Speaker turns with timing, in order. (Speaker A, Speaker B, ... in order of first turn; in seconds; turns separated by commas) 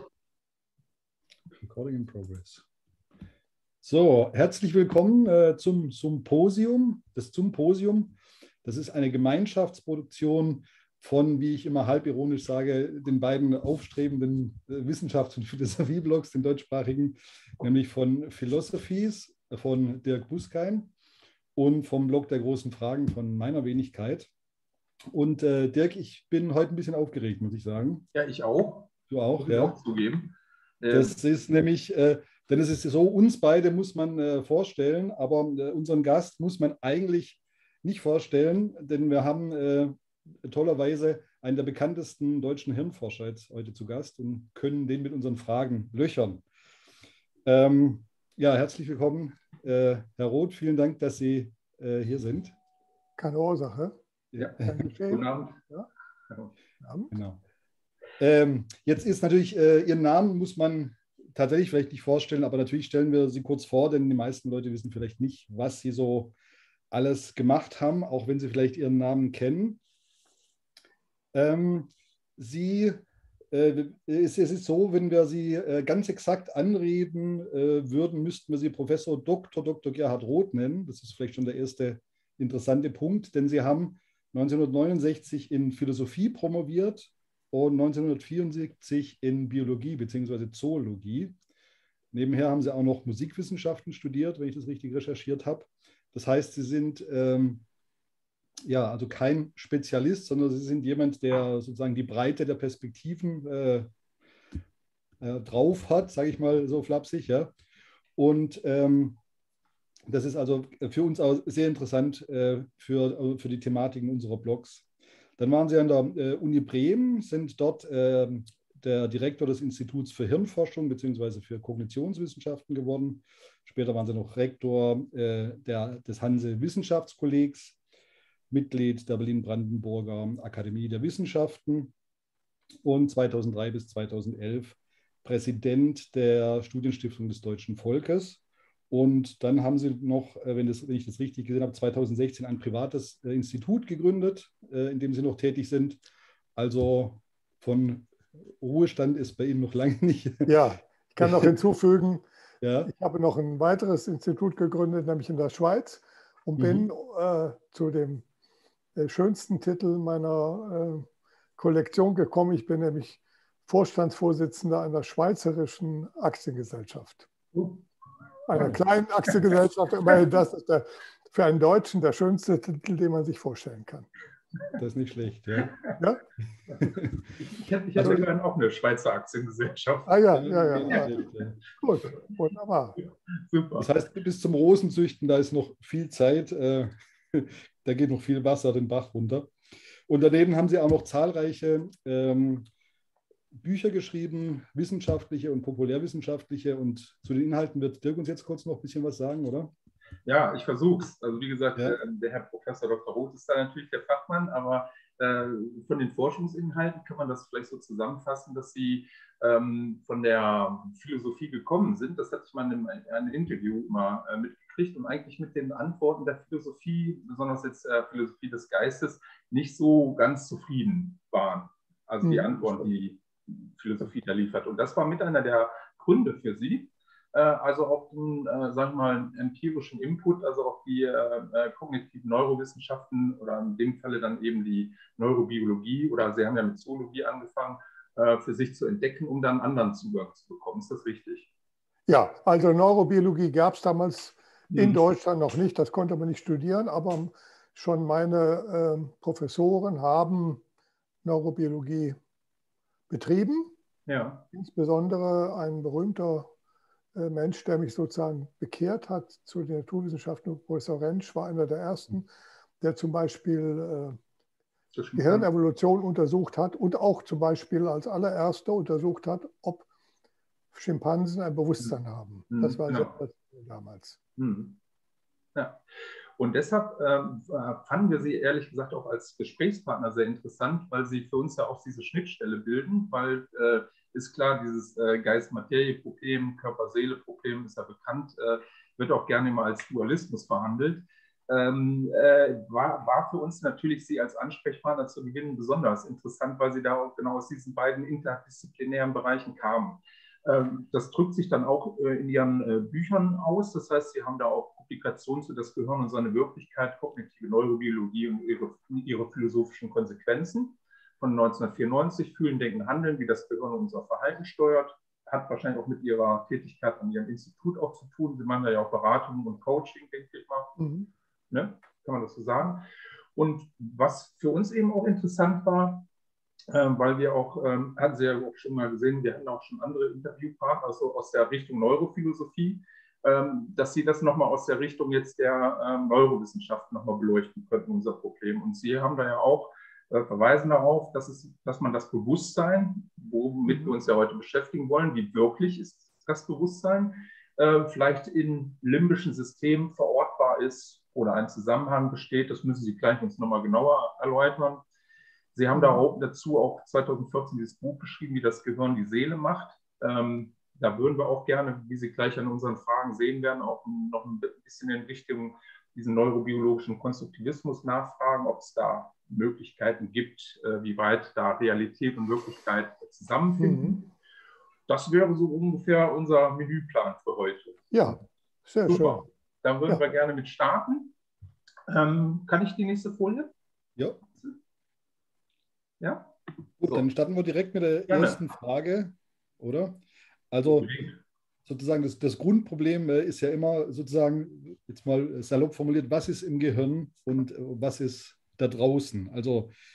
Speaker A: 1.6-2.6, Speaker A: 3.8-20.9, Speaker A: 21.6-24.3, Speaker A: 25.1-28.1, Speaker B: 28.1-31.2, Speaker A: 29.1-29.8, Speaker A: 30.9-46.4, Speaker A: 47.5-52.5, Speaker C: 53.2-54.0, Speaker A: 54.3-54.7, Speaker B: 54.4-55.6, Speaker C: 54.6-55.9, Speaker C: 56.8-57.1, Speaker A: 57.1-57.4, Speaker A: 58.2-66.3, Speaker A: 66.9-69.8, Speaker A: 71.3-91.3, Speaker A: 92.1-97.6, Speaker A: 98.7-103.9, Speaker A: 105.2-107.5, Speaker A: 108.2-109.2, Speaker A: 110.1-114.8, Speaker A: 115.4-127.8, Speaker A: 128.5-131.9, Speaker A: 132.8-146.0, Speaker A: 146.6-150.5, Speaker C: 150.5-152.2, Speaker A: 151.2-151.5, Speaker A: 152.6-152.9, Speaker C: 152.9-158.2, Speaker A: 156.6-156.9, Speaker C: 159.0-161.1, Speaker C: 161.6-167.3, Speaker B: 167.5-167.8, Speaker C: 168.5-174.1, Speaker A: 174.8-175.8, Speaker A: 176.8-177.1, Speaker B: 177.4-181.3, Speaker A: 178.0-178.2, Speaker C: 180.1-181.1, Speaker A: 180.3-181.6, Speaker C: 181.8-183.0, Speaker B: 183.5-183.9, Speaker A: 183.8-189.5, Speaker A: 190.1-192.7, Speaker A: 193.6-199.7, Speaker B: 200.3-241.5, Speaker C: 222.2-222.9, Speaker C: 242.1-250.6, Speaker B: 244.7-245.0, Speaker C: 251.2-252.2, Speaker C: 253.1-253.7, Speaker B: 254.1-254.5, Speaker C: 254.5-256.5, Speaker C: 257.1-262.3, Speaker C: 262.8-264.2, Speaker B: 264.9-265.5, Speaker C: 265.2-269.9, Speaker C: 270.7-274.2, Speaker B: 272.5-273.1, Speaker B: 274.4-274.8, Speaker B: 275.6-275.8, Speaker B: 276.4-320.8, Speaker C: 320.8-321.1, Speaker B: 321.5-326.1, Speaker B: 326.7-354.9, Speaker C: 343.7-343.9, Speaker B: 355.5-374.1, Speaker C: 355.8-356.0, Speaker C: 373.6-374.0, Speaker B: 374.9-377.8, Speaker C: 377.9-379.2, Speaker B: 378.9-381.1, Speaker B: 381.9-383.5, Speaker B: 386.0-386.4, Speaker A: 386.8-391.1, Speaker B: 388.1-388.4, Speaker B: 390.7-391.2, Speaker A: 391.7-399.7